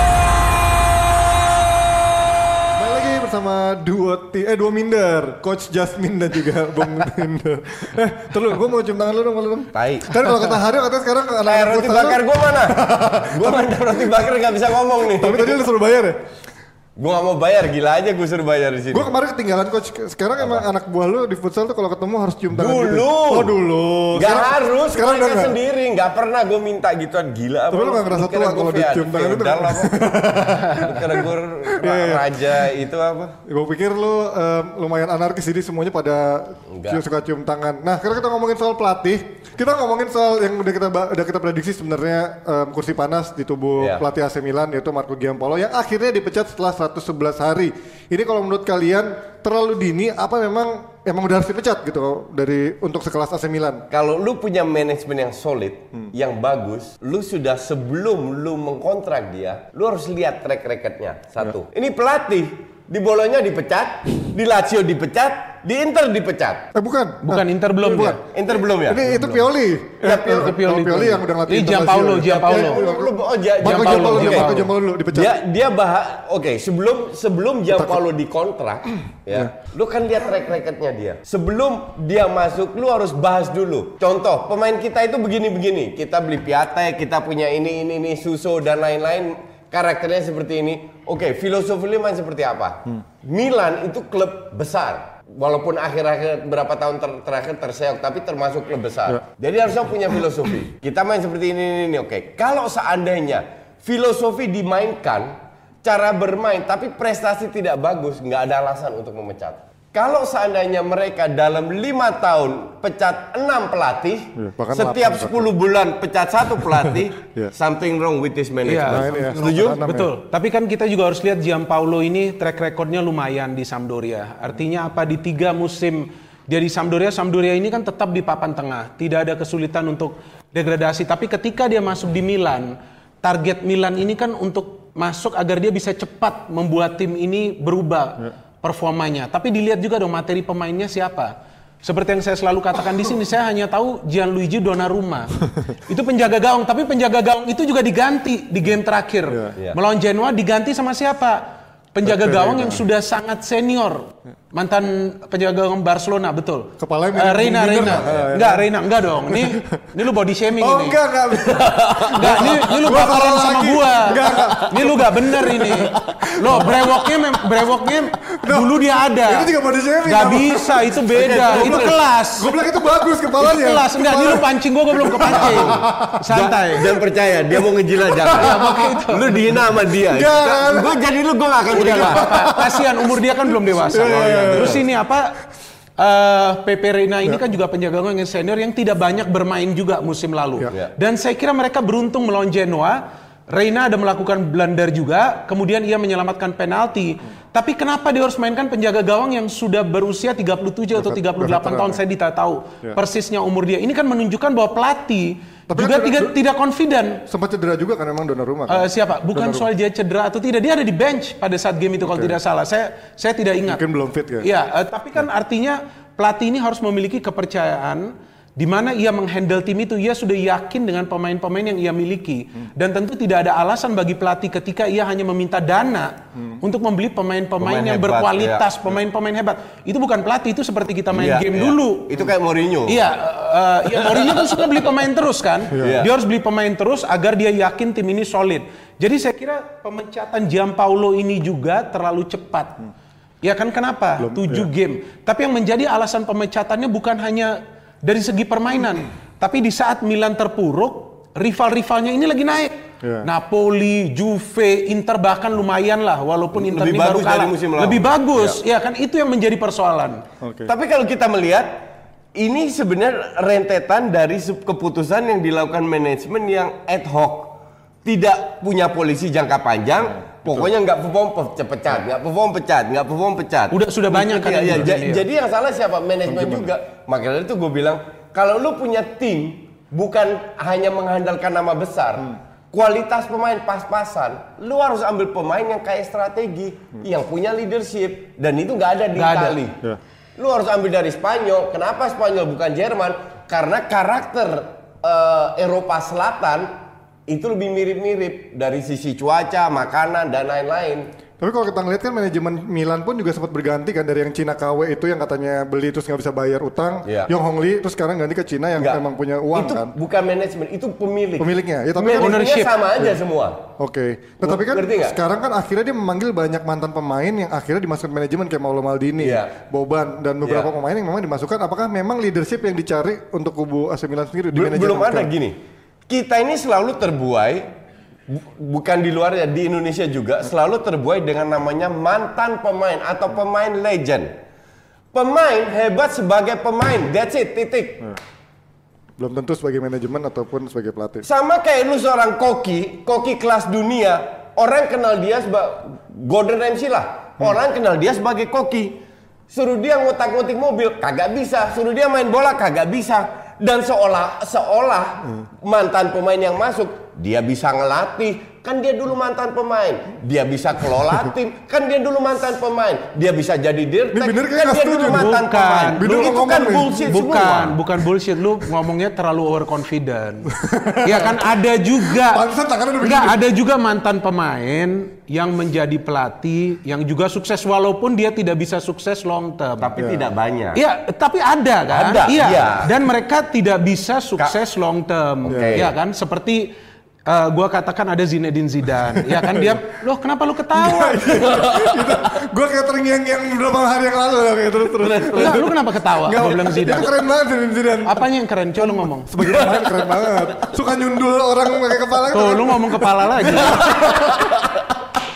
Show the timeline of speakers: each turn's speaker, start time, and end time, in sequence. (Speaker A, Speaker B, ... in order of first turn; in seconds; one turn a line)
Speaker A: 2.7-13.9
Speaker B: 9.7-10.2
Speaker B: 11.5-15.6
Speaker A: 15.2-16.2
Speaker B: 17.0-19.1
Speaker A: 18.9-25.6
Speaker B: 20.4-20.6
Speaker B: 22.6-23.6
Speaker B: 24.1-30.0
Speaker A: 27.7-32.4
Speaker B: 30.6-33.4
Speaker A: 33.5-53.8
Speaker B: 36.7-37.0
Speaker B: 43.8-44.0
Speaker B: 53.9-66.7
Speaker A: 66.7-68.2
Speaker C: 67.2-68.2
Speaker B: 68.3-69.4
Speaker A: 68.8-75.4
Speaker B: 70.0-70.6
Speaker C: 70.2-72.8
Speaker B: 72.2-119.9
Speaker C: 73.6-74.7
Speaker A: 114.4-115.5
Speaker A: 116.8-117.5
Speaker C: 118.7-151.4
Speaker A: 118.9-120.2
Speaker C: 151.9-161.0
Speaker A: 152.1-152.8
Speaker A: 156.8-158.7
Speaker B: 157.9-158.3
Speaker A: 159.2-159.9
Speaker A: 160.6-167.0
Speaker B: 161.5-162.6
Speaker C: 162.1-169.5
Speaker B: 164.3-164.6
Speaker A: 168.4-176.2
Speaker C: 170.1-172.5
Speaker C: 173.4-177.0
Speaker B: 175.3-182.5
Speaker A: 178.2-178.8
Speaker C: 178.3-179.3
Speaker A: 180.0-181.0
Speaker C: 181.7-185.4
Speaker A: 181.8-182.9
Speaker B: 183.9-184.8
Speaker A: 183.9-184.8
Speaker C: 186.0-207.2
Speaker A: 200.9-202.0
Speaker A: 205.7-206.3
Speaker A: 207.3-209.7
Speaker C: 208.7-213.8
Speaker A: 212.0-212.4
Speaker A: 213.7-214.5
Speaker C: 214.4-232.1
Speaker B: 227.6-228.7
Speaker B: 231.1-233.0
Speaker C: 232.9-242.8
Speaker B: 234.0-234.6
Speaker B: 235.8-236.1
Speaker C: 243.4-260.2
Speaker A: 244.2-244.7
Speaker B: 256.6-258.6
Speaker A: 260.4-260.7
Speaker B: 260.7-261.8
Speaker B: 262.4-289.8
Speaker C: 273.7-275.2
Speaker A: 276.3-276.7
Speaker C: 289.2-289.6
Speaker B: 290.4-296.7
Speaker B: 297.3-301.1
Speaker A: 301.4-309.9
Speaker B: 307.1-307.3
Speaker B: 308.8-309.0
Speaker B: 309.5-313.6
Speaker A: 311.4-312.4
Speaker C: 312.2-312.7
Speaker A: 313.8-325.3
Speaker B: 314.4-315.2
Speaker B: 319.2-319.5
Speaker B: 320.4-320.7
Speaker B: 324.5-325.6
Speaker B: 326.1-327.7
Speaker B: 328.3-334.3
Speaker B: 335.1-338.1
Speaker A: 339.2-341.2
Speaker B: 341.2-349.0
Speaker B: 349.5-367.8
Speaker A: 364.1-365.4
Speaker C: 365.1-370.5
Speaker A: 366.0-367.1
Speaker A: 370.5-371.4
Speaker C: 371.0-372.5
Speaker A: 372.0-373.4
Speaker C: 373.0-379.9
Speaker B: 379.8-380.8
Speaker C: 380.8-386.7
Speaker B: 381.9-382.9
Speaker B: 385.4-385.9
Speaker A: 385.5-385.9
Speaker C: 387.3-391.5
Speaker A: 389.1-389.8
Speaker A: 390.7-404.7
Speaker B: 391.4-392.2
Speaker B: 395.0-395.6
Speaker C: 395.3-397.1
Speaker C: 398.1-399.7
Speaker C: 402.3-404.2
Speaker B: 403.6-404.7